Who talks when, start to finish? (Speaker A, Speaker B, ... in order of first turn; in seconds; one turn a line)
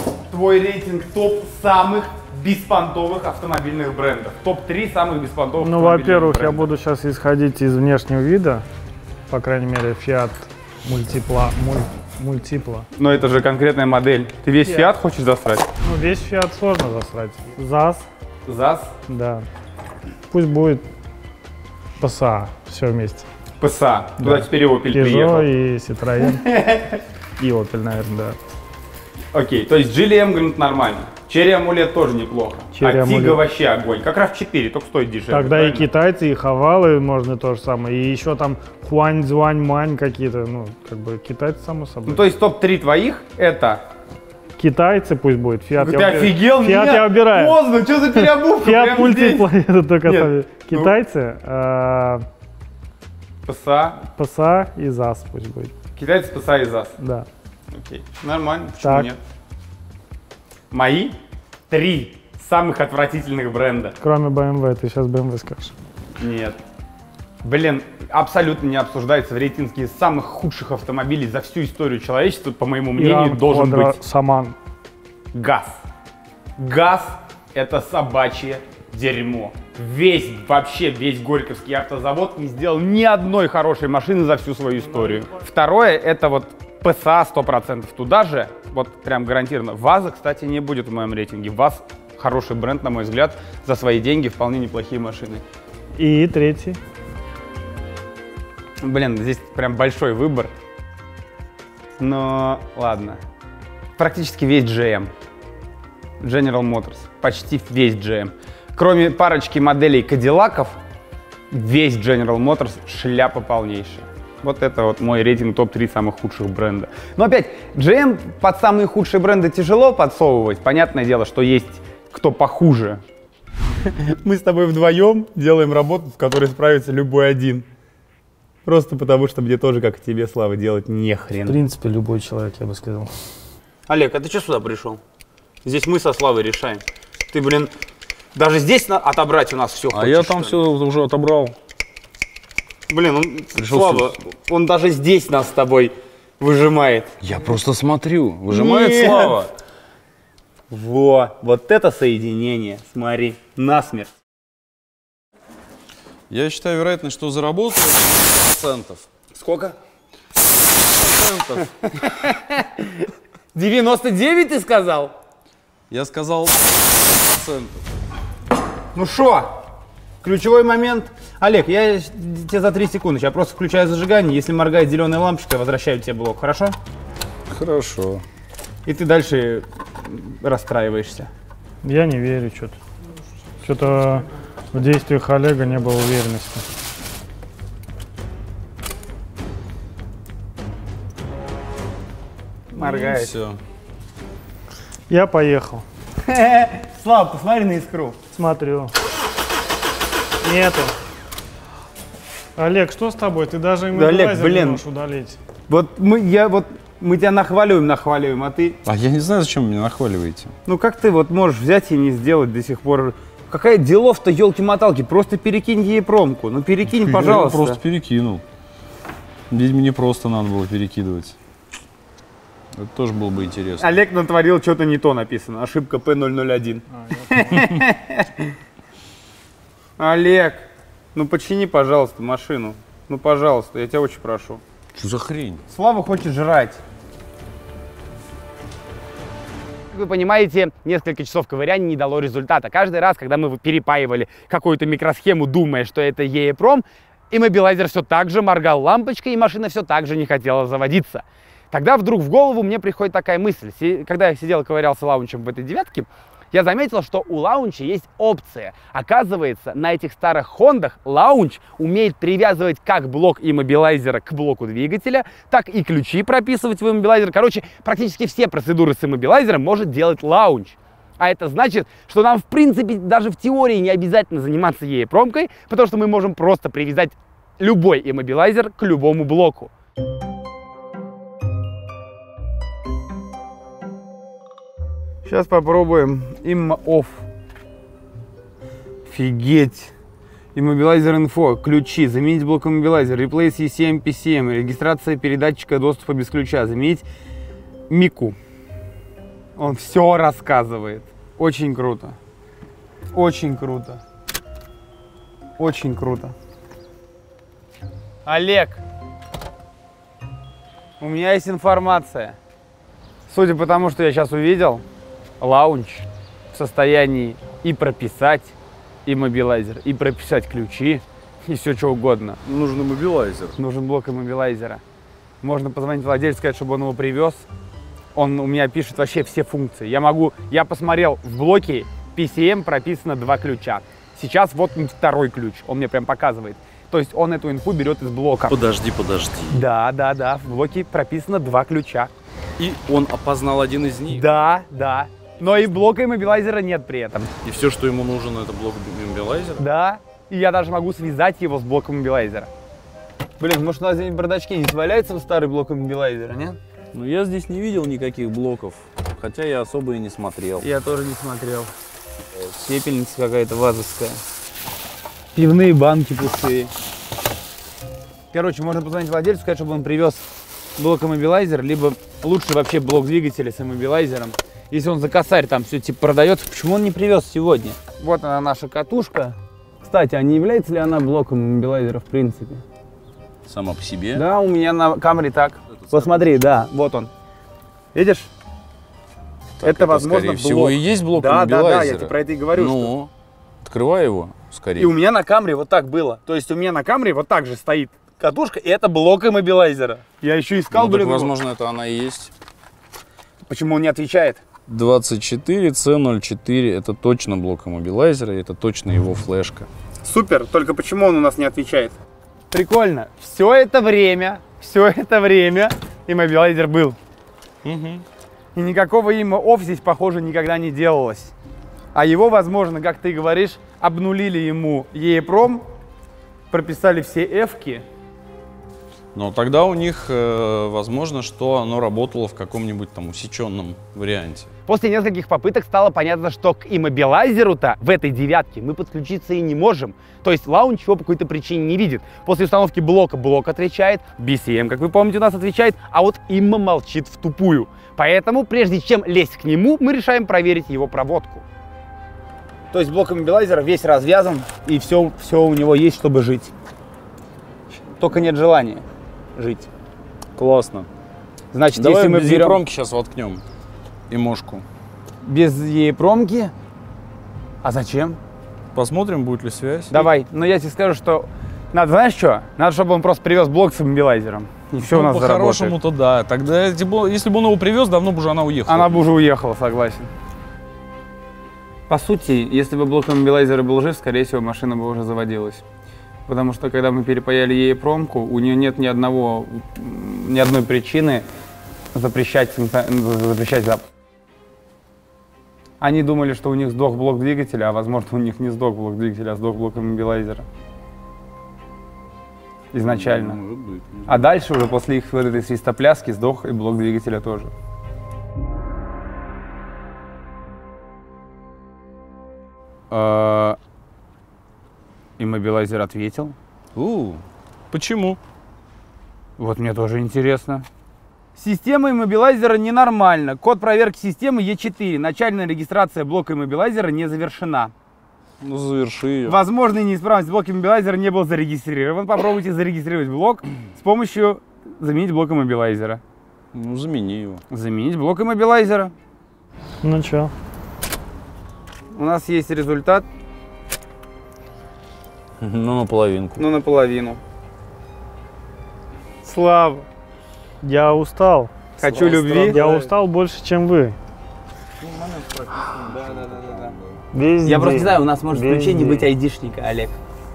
Speaker A: 0.3-6.7
Speaker B: 5.6-8.6
Speaker B: 9.3-12.9
Speaker A: 13.0-15.7
Speaker B: 14.7-14.9
Speaker B: 15.8-18.1
Speaker A: 18.5-18.9
Speaker B: 19.1-19.5
Speaker B: 20.3-20.9
Speaker B: 22.0-23.2
Speaker A: 23.6-25.5
Speaker B: 24.2-26.5
Speaker A: 26.3-27.0
Speaker B: 27.4-28.4
Speaker A: 29.3-35.9
Speaker B: 32.8-33.4
Speaker B: 35.3-42.3
Speaker A: 42.1-43.8
Speaker B: 44.6-47.6
Speaker A: 45.8-49.5
Speaker B: 48.2-52.3
Speaker A: 50.0-51.0
Speaker A: 53.5-54.0
Speaker B: 54.2-55.7
Speaker A: 56.0-56.9
Speaker B: 57.0-57.3
Speaker A: 57.7-59.2
Speaker B: 58.8-59.1
Speaker A: 60.7-61.2
Speaker A: 61.7-64.0
Speaker B: 64.0-65.7
Speaker A: 66.2-66.6
Speaker A: 67.4-74.0
Speaker B: 73.0-74.6
Speaker A: 75.3-75.8
Speaker A: 76.6-95.4
Speaker B: 85.0-85.3
Speaker B: 96.0-96.8
Speaker A: 98.8-100.5
Speaker A: 102.0-103.2
Speaker A: 104.0-105.1
Speaker A: 106.2-110.8
Speaker A: 111.5-123.0
Speaker A: 123.9-127.7
Speaker A: 128.7-131.6
Speaker B: 131.5-133.1
Speaker A: 133.9-135.0
Speaker A: 135.6-137.7
Speaker A: 138.3-140.6
Speaker C: 139.9-141.6
Speaker A: 142.9-147.2
Speaker C: 143.6-144.3
Speaker C: 147.2-149.5
Speaker A: 148.5-149.4
Speaker A: 150.7-154.1
Speaker C: 156.3-159.1
Speaker A: 159.3-159.8
Speaker C: 160.8-161.7
Speaker A: 161.9-165.1
Speaker C: 165.9-167.8
Speaker A: 168.9-169.6
Speaker A: 170.2-176.8
Speaker C: 177.5-178.2
Speaker A: 178.9-181.3
Speaker B: 181.8-182.8
Speaker B: 183.6-186.7
Speaker A: 192.7-193.3
Speaker C: 192.8-193.6
Speaker B: 195.1-195.8
Speaker A: 196.2-198.2
Speaker B: 198.4-198.9
Speaker B: 200.4-200.9
Speaker B: 202.6-205.4
Speaker A: 203.9-204.8
Speaker A: 205.7-208.8
Speaker C: 208.8-210.5
Speaker A: 210.7-217.8
Speaker C: 216.9-218.4
Speaker C: 219.5-221.4
Speaker C: 222.8-223.9
Speaker A: 223.8-228.5
Speaker A: 230.0-234.6
Speaker C: 234.9-235.6
Speaker A: 235.7-236.8
Speaker A: 239.9-279.7
Speaker A: 285.2-287.2
Speaker A: 289.1-289.9
Speaker A: 290.6-297.1
Speaker A: 297.9-298.4
Speaker A: 299.6-302.2
Speaker A: 303.1-304.0
Speaker A: 305.6-306.4
Speaker A: 308.3-308.8
Speaker A: 311.0-312.4
Speaker A: 313.3-314.8
Speaker A: 315.4-318.5
Speaker A: 319.1-322.4
Speaker C: 322.4-323.6
Speaker A: 323.6-324.8
Speaker A: 325.4-327.4
Speaker A: 328.1-338.6
Speaker C: 338.5-339.6
Speaker A: 339.5-342.1
Speaker C: 342.6-344.4
Speaker A: 344.1-347.3
Speaker C: 347.4-349.6
Speaker A: 349.6-352.5
Speaker A: 353.4-356.6
Speaker C: 356.9-360.7
Speaker A: 360.6-361.7
Speaker A: 362.6-364.2
Speaker A: 365.4-366.7
Speaker A: 368.3-370.2
Speaker A: 370.8-382.6
Speaker C: 383.5-384.2
Speaker A: 384.1-387.1
Speaker C: 385.9-386.2
Speaker A: 387.9-388.3
Speaker C: 389.6-393.1
Speaker A: 389.6-392.9
Speaker C: 393.6-394.9
Speaker A: 394.8-401.3
Speaker C: 400.7-402.3
Speaker A: 403.5-404.4
Speaker C: 404.7-409.7
Speaker A: 410.0-412.0
Speaker A: 412.5-417.0
Speaker C: 417.6-418.1
Speaker A: 418.6-421.3
Speaker A: 421.9-425.7
Speaker A: 426.5-427.9
Speaker C: 429.1-434.5
Speaker A: 434.7-451.4
Speaker A: 452.7-456.5
Speaker A: 457.7-458.8
Speaker A: 459.4-459.7
Speaker C: 460.4-460.9
Speaker A: 461.5-462.6
Speaker C: 461.8-463.4
Speaker C: 464.1-464.6
Speaker A: 465.2-466.5
Speaker A: 467.6-468.2
Speaker C: 468.7-470.1
Speaker A: 469.9-475.8
Speaker C: 474.8-479.0
Speaker A: 478.7-480.1
Speaker A: 481.9-485.6
Speaker A: 486.3-491.3
Speaker A: 491.9-493.9
Speaker A: 495.8-500.4
Speaker A: 502.7-503.4
Speaker C: 502.8-504.3
Speaker A: 504.1-507.5
Speaker A: 512.9-513.6
Speaker A: 515.2-516.4
Speaker C: 516.8-518.2
Speaker A: 519.4-520.7
Speaker A: 521.4-527.7
Speaker C: 528.4-529.4
Speaker A: 529.2-536.0
Speaker C: 536.5-537.4
Speaker A: 537.5-538.9
Speaker B: 539.8-540.3
Speaker A: 541.9-543.1
Speaker C: 545.4-546.4
Speaker A: 546.4-547.2
Speaker A: 549.2-549.9
Speaker B: 550.6-551.5
Speaker A: 551.8-552.6
Speaker C: 551.8-552.9
Speaker B: 552.4-554.0
Speaker C: 554.8-557.0
Speaker A: 557.4-560.0